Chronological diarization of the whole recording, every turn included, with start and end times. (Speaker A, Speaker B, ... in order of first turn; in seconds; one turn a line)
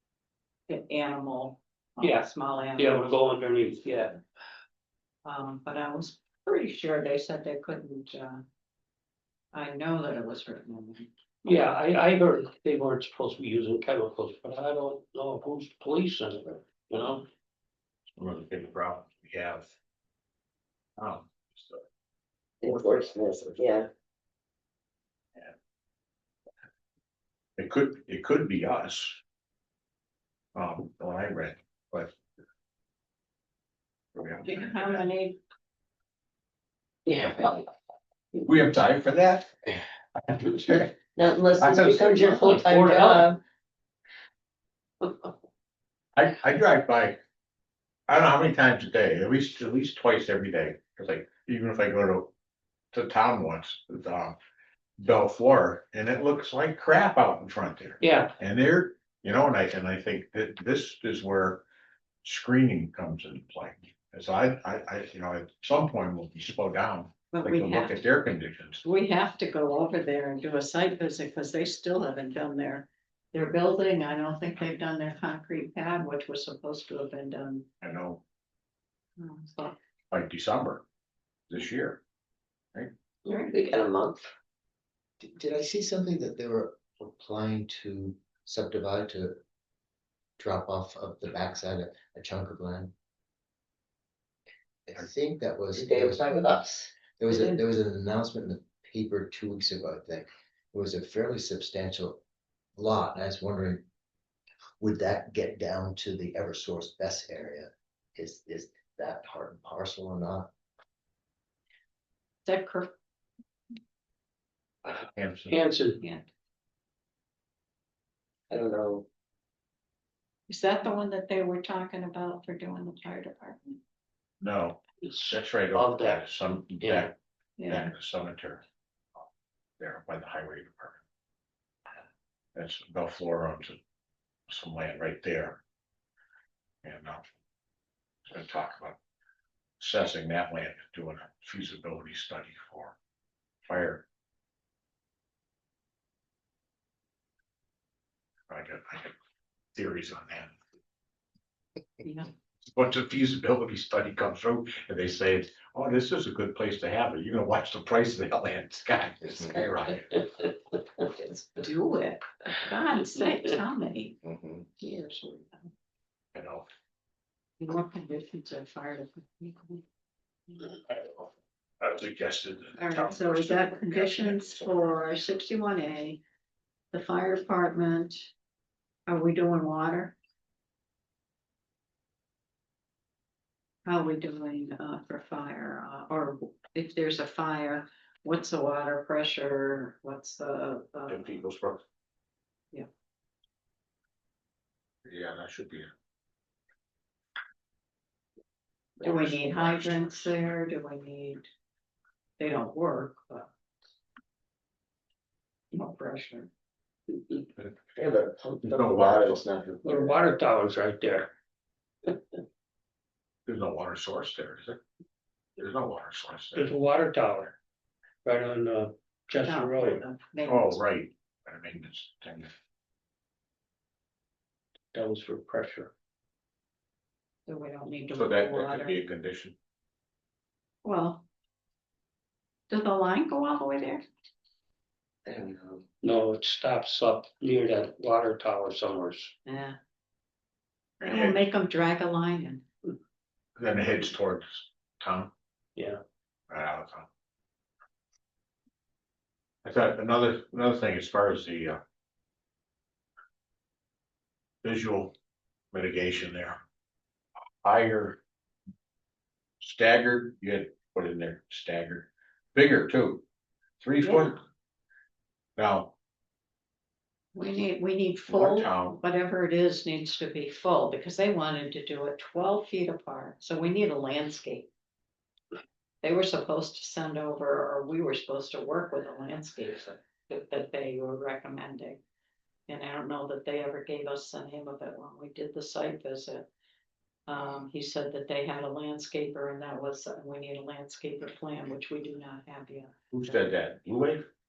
Speaker A: 0.7-3.0
Speaker B: 2.0-4.2
Speaker A: 5.2-8.4
Speaker A: 9.5-11.1
Speaker B: 11.4-17.2
Speaker C: 18.1-19.7
Speaker C: 21.0-21.9
Speaker D: 22.6-23.9
Speaker C: 22.6-23.7
Speaker C: 27.6-29.2
Speaker C: 30.5-32.1
Speaker C: 34.1-35.0
Speaker A: 34.4-35.4
Speaker D: 37.0-37.7
Speaker C: 38.4-39.5
Speaker C: 40.6-41.0
Speaker D: 40.6-43.4
Speaker C: 41.6-42.4
Speaker B: 42.4-43.3
Speaker C: 46.1-47.2
Speaker C: 48.1-52.3
Speaker C: 52.9-54.4
Speaker C: 55.0-61.6
Speaker B: 58.0-58.3
Speaker C: 62.2-68.8
Speaker A: 67.3-68.0
Speaker A: 68.8-77.7
Speaker C: 77.8-78.2
Speaker A: 79.2-79.8
Speaker C: 80.1-80.8
Speaker C: 81.5-82.0
Speaker D: 83.2-84.3
Speaker A: 83.3-83.6
Speaker E: 85.2-89.4
Speaker E: 90.4-92.9
Speaker E: 94.9-96.5
Speaker D: 95.7-97.6
Speaker E: 97.2-102.2
Speaker E: 102.8-103.8
Speaker E: 104.8-110.5
Speaker A: 112.4-112.9
Speaker C: 115.1-115.6
Speaker B: 115.5-116.0
Speaker A: 116.0-116.3
Speaker D: 118.5-119.0
Speaker A: 120.5-123.8
Speaker C: 124.4-127.1
Speaker B: 125.0-126.3
Speaker B: 126.8-127.1
Speaker A: 127.6-127.9
Speaker C: 127.7-128.6
Speaker C: 129.8-131.0
Speaker C: 132.5-133.8
Speaker C: 134.5-135.6
Speaker C: 136.8-137.3
Speaker C: 138.3-139.0
Speaker C: 139.8-143.0
Speaker C: 143.7-144.1
Speaker C: 148.5-149.1
Speaker C: 149.7-150.6
Speaker A: 152.0-152.3
Speaker C: 152.6-160.1
Speaker A: 161.1-164.2
Speaker D: 164.3-164.5
Speaker A: 164.8-165.6
Speaker C: 166.3-166.7
Speaker A: 167.6-169.8
Speaker A: 170.5-170.8
Speaker C: 171.8-174.7
Speaker A: 172.8-176.2
Speaker A: 176.9-178.3
Speaker A: 179.1-180.2
Speaker A: 183.8-191.4
Speaker C: 191.1-191.8
Speaker C: 195.0-195.9
Speaker C: 199.0-200.3
Speaker A: 199.0-201.4
Speaker A: 202.4-203.5
Speaker A: 205.7-206.5
Speaker D: 207.9-210.1
Speaker C: 208.7-209.4
Speaker B: 209.8-211.3
Speaker C: 213.4-214.8
Speaker C: 215.6-216.7
Speaker B: 216.5-217.5
Speaker B: 218.2-220.0
Speaker A: 219.4-220.8
Speaker C: 220.4-222.5
Speaker B: 224.9-225.9
Speaker A: 227.5-229.0
Speaker C: 228.1-229.6
Speaker A: 230.8-231.2
Speaker A: 232.7-234.0
Speaker D: 235.2-235.8
Speaker B: 236.0-239.3
Speaker A: 239.4-239.8
Speaker C: 241.0-241.4
Speaker A: 241.0-242.6
Speaker C: 243.6-245.3
Speaker B: 245.8-246.0
Speaker C: 246.5-247.1
Speaker C: 249.6-251.8
Speaker C: 254.6-255.1
Speaker C: 255.7-256.6
Speaker C: 257.6-258.2
Speaker C: 259.6-263.2
Speaker C: 263.8-264.4
Speaker A: 264.0-264.4
Speaker C: 265.6-265.9
Speaker A: 267.3-274.7
Speaker C: 268.3-269.0
Speaker A: 276.0-282.0
Speaker A: 282.7-286.5
Speaker A: 287.3-293.4
Speaker C: 293.1-294.2